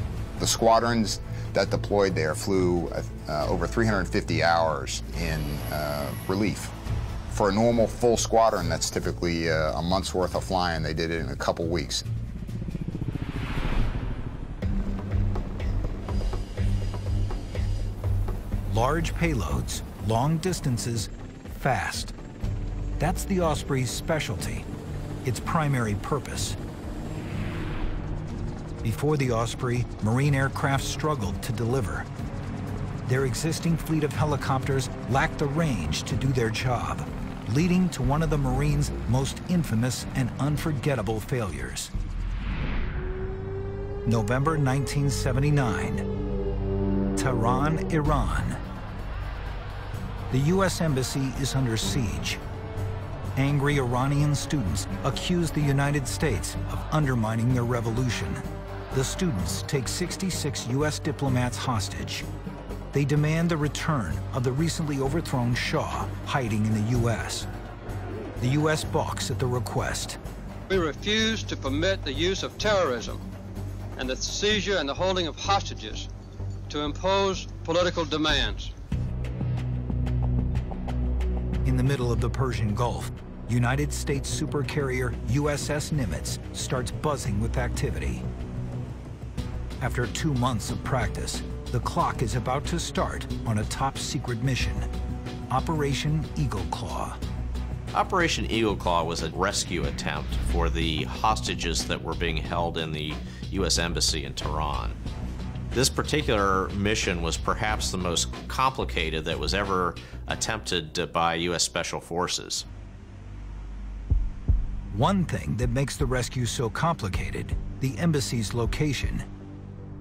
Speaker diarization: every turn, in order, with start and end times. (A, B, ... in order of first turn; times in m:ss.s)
0:00.4-0:06.7 A
0:07.3-0:12.0 A
0:18.7-0:22.1 B
0:23.0-0:24.6 B
0:25.2-0:26.6 B
0:28.8-0:32.1 B
0:33.0-0:41.9 B
0:44.0-0:46.0 B
0:47.2-0:48.6 B
0:50.3-0:52.4 B
0:53.3-1:02.2 B
1:02.9-1:07.5 B
1:08.4-1:10.2 B
1:10.7-1:13.2 C
1:14.0-1:16.1 C
1:16.7-1:18.7 C
1:21.6-1:28.2 B
1:29.8-1:34.9 B
1:35.5-1:37.2 B
1:37.9-1:45.0 D
1:45.7-1:52.6 D
1:54.9-1:59.2 B